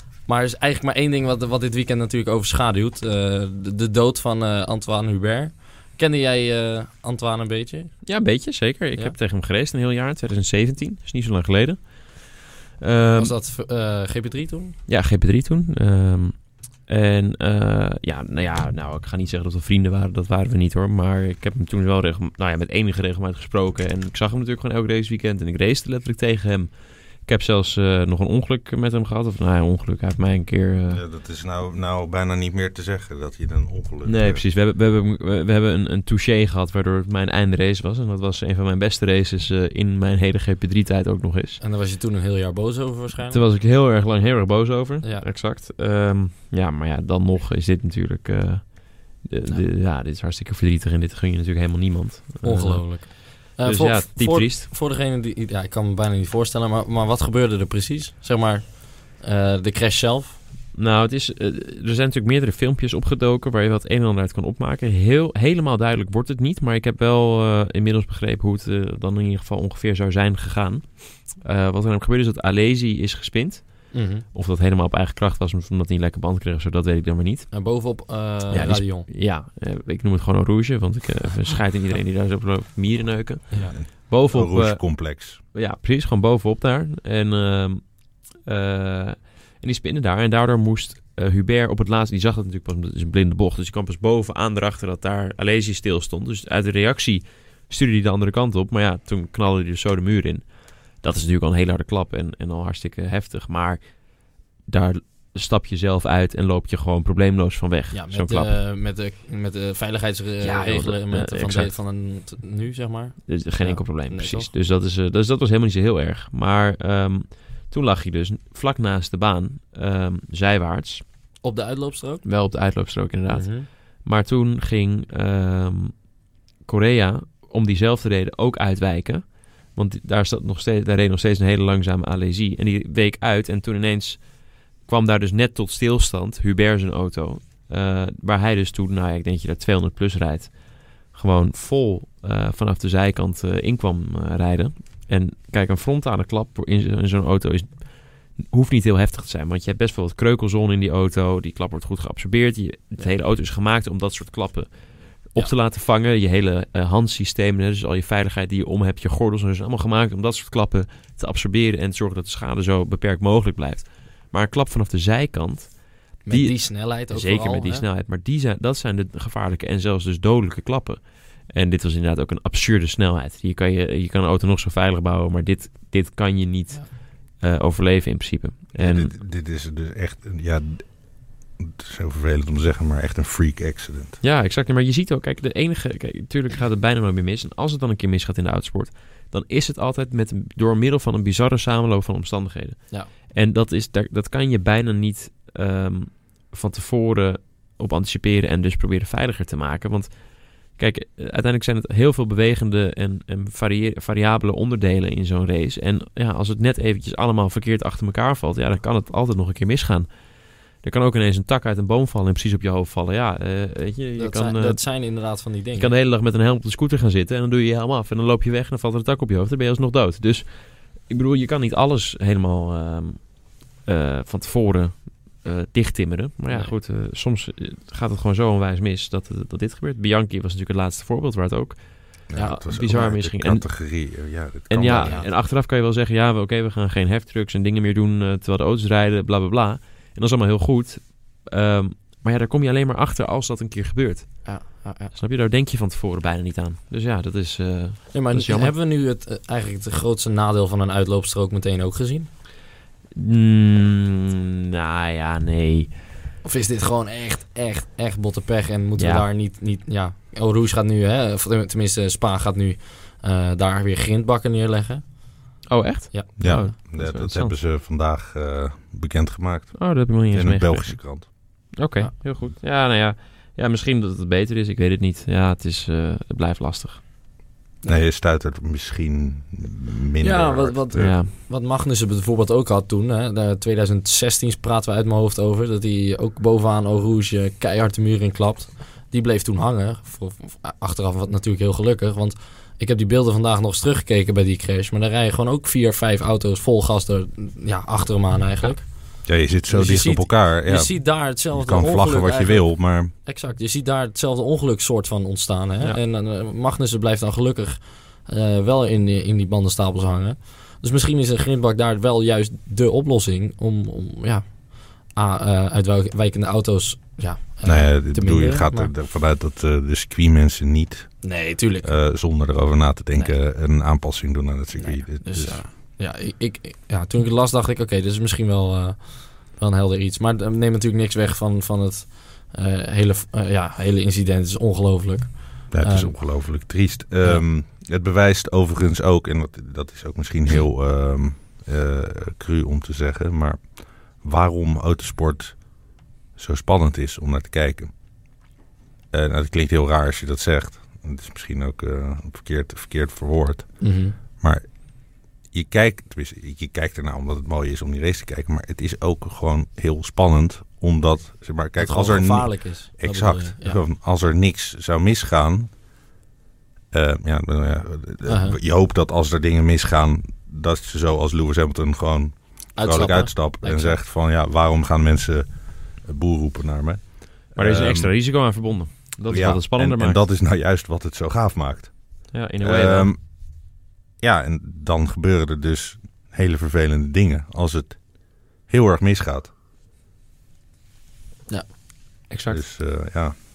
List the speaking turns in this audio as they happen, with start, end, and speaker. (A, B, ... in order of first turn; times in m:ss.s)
0:00.3-0:07.9 A
0:08.0-0:11.8 B
0:12.8-0:13.3 B
0:13.2-0:14.8 A
0:14.9-0:26.7 B
0:27.3-0:31.0 B
0:30.9-0:34.4 C
0:34.0-0:41.6 B
0:41.6-0:43.4 A
0:43.3-0:54.7 B
0:45.0-0:45.3 A
0:52.4-1:00.4 A
1:00.7-1:17.6 B
1:13.9-1:14.3 A
1:17.5-1:19.1 A
1:18.5-1:40.5 B
1:23.7-1:25.4 C
1:41.0-1:43.8 B
1:44.7-1:48.6 B
1:47.9-1:54.5 A
1:50.4-1:51.7 B
1:53.3-2:01.0 B
2:01.4-2:02.2 A
2:02.2-2:06.0 B
2:03.3-2:03.7 A
2:06.6-2:14.3 B
2:14.8-2:59.1 B
2:46.2-2:47.9 A
2:58.8-3:00.9 C
3:01.6-3:04.2 C
3:04.2-3:20.1 B
3:20.7-3:30.1 B
3:30.8-3:34.8 B
3:34.2-3:35.9 A
3:35.8-3:40.5 B
3:41.1-3:53.7 B
3:46.5-3:46.7 A
3:52.3-3:55.2 C
3:54.7-4:04.5 B
3:55.0-3:55.3 A
4:04.4-4:05.1 A
4:05.1-4:08.7 B
4:08.1-4:12.3 A
4:13.2-4:15.9 B
4:16.4-4:25.1 A
4:19.0-4:19.3 B
4:25.7-4:27.6 B
4:26.1-4:26.8 A
4:26.4-4:31.3 C
4:29.8-4:31.1 B
4:31.8-4:37.0 B
4:37.9-4:41.2 C
4:40.2-5:18.9 A
4:41.0-4:41.3 B
4:59.2-5:03.1 C
5:17.6-5:21.3 C
5:21.2-5:21.9 A
5:21.8-5:25.6 C
5:24.8-5:36.2 A
5:35.7-5:45.6 C
5:46.4-5:47.9 C
5:49.1-5:53.8 C
5:53.8-5:54.2 A
5:54.4-5:54.6 C
5:55.5-6:05.7 C
6:01.8-6:03.8 A
6:06.9-6:15.5 C
6:08.2-6:08.6 A
6:12.8-6:14.0 A
6:16.0-6:18.1 C
6:17.6-6:20.2 B
6:19.3-6:21.9 C
6:22.3-6:23.1 B
6:22.6-6:23.2 C
6:24.2-6:28.0 C
6:28.7-6:29.5 C
6:32.3-6:32.7 B
6:32.5-6:33.4 C